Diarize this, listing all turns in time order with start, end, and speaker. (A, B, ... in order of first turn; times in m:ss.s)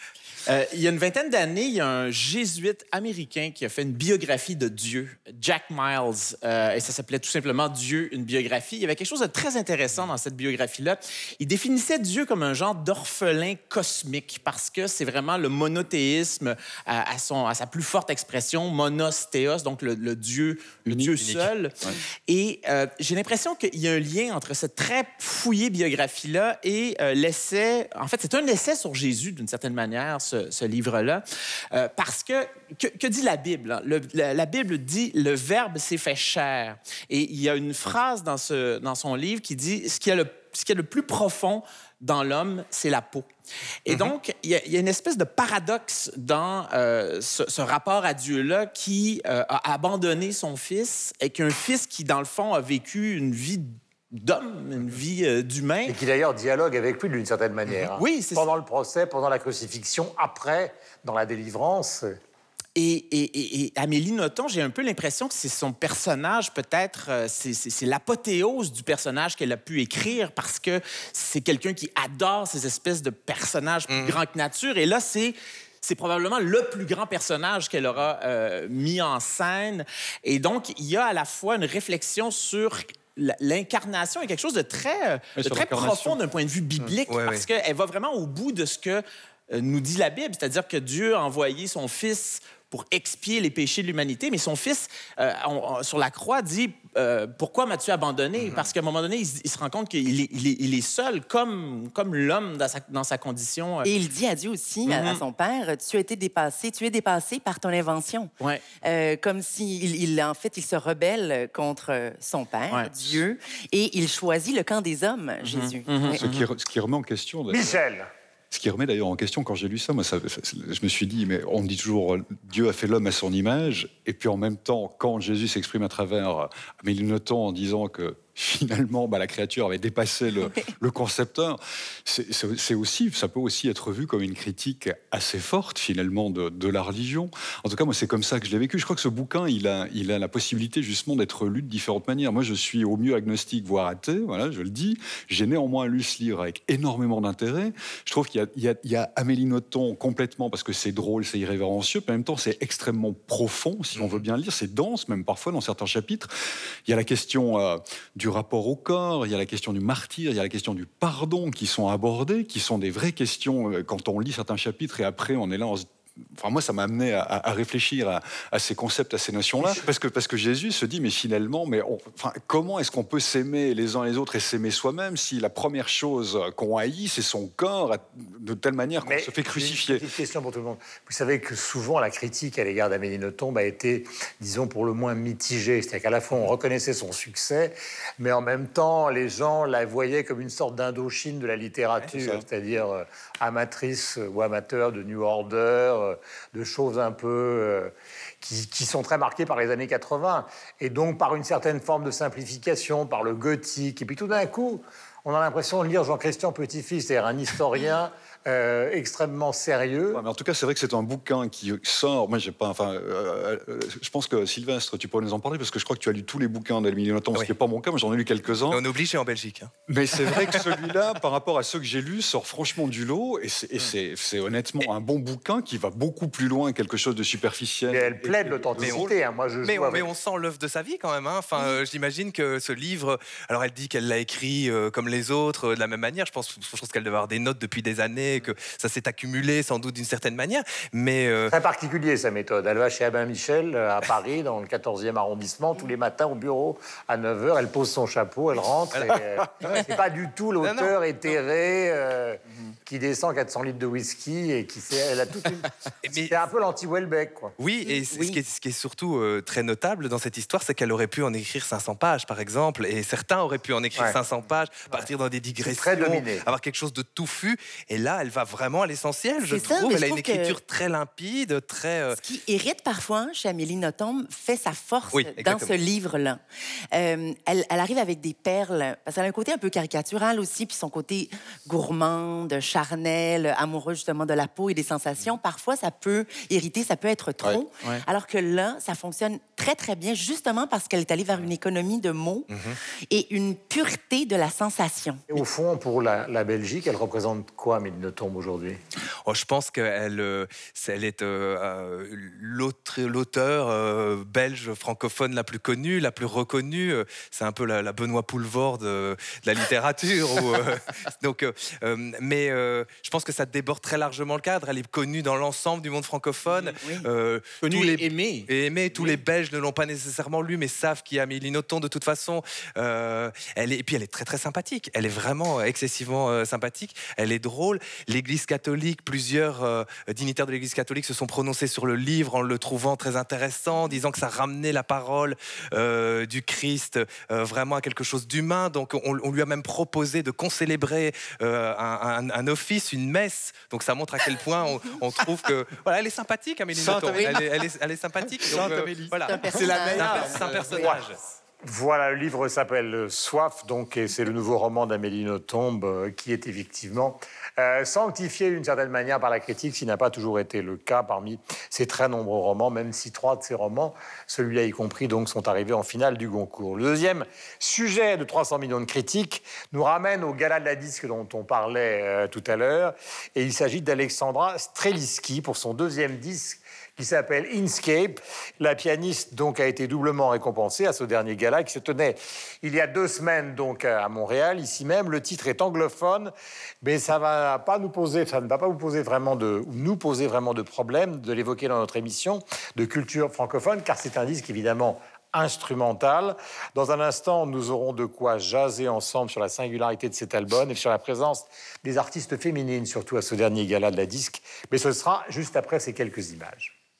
0:00.4-0:21.7 A
0:20.9-0:21.1 B
0:21.2-0:21.5 C
0:22.3-0:43.3 A
0:43.9-0:56.0 A
0:55.9-1:02.2 D
0:57.7-0:58.5 A
1:02.8-1:43.9 A
1:13.9-1:14.2 C
1:25.4-1:26.2 B
1:27.1-1:27.4 C
1:43.8-1:48.3 E
1:44.9-1:45.2 A
1:48.8-1:56.1 E
1:52.7-1:53.1 A
1:55.4-1:56.5 A
1:56.1-1:57.8 B
1:57.5-1:58.1 D
1:58.5-2:36.3 B
2:36.8-3:00.1 B
2:59.0-3:30.2 D
3:12.1-3:12.4 B
3:30.1-3:38.8 B
3:38.7-3:40.6 C
3:39.9-3:49.1 B
3:47.9-3:50.1 D
3:48.8-3:49.1 C
3:49.6-4:01.5 C
4:01.5-4:17.5 D
4:08.9-4:09.8 C
4:10.6-4:11.0 C
4:16.0-4:16.3 C
4:17.6-4:32.2 C
4:17.8-4:18.4 E
4:25.6-4:26.4 D
4:29.5-4:30.5 E
4:32.1-4:36.4 E
4:35.1-4:35.7 C
4:36.9-4:52.5 E
4:52.5-4:52.8 C
4:53.1-4:55.2 E
4:55.3-4:58.8 D
4:59.2-5:51.2 C
5:16.8-5:17.1 E
5:17.6-5:18.5 A
5:46.7-5:47.6 B
5:47.1-5:47.4 E
5:48.4-5:50.3 B
5:49.2-5:50.3 E
5:49.5-5:50.8 A
5:50.7-5:51.1 D
5:51.6-6:46.7 D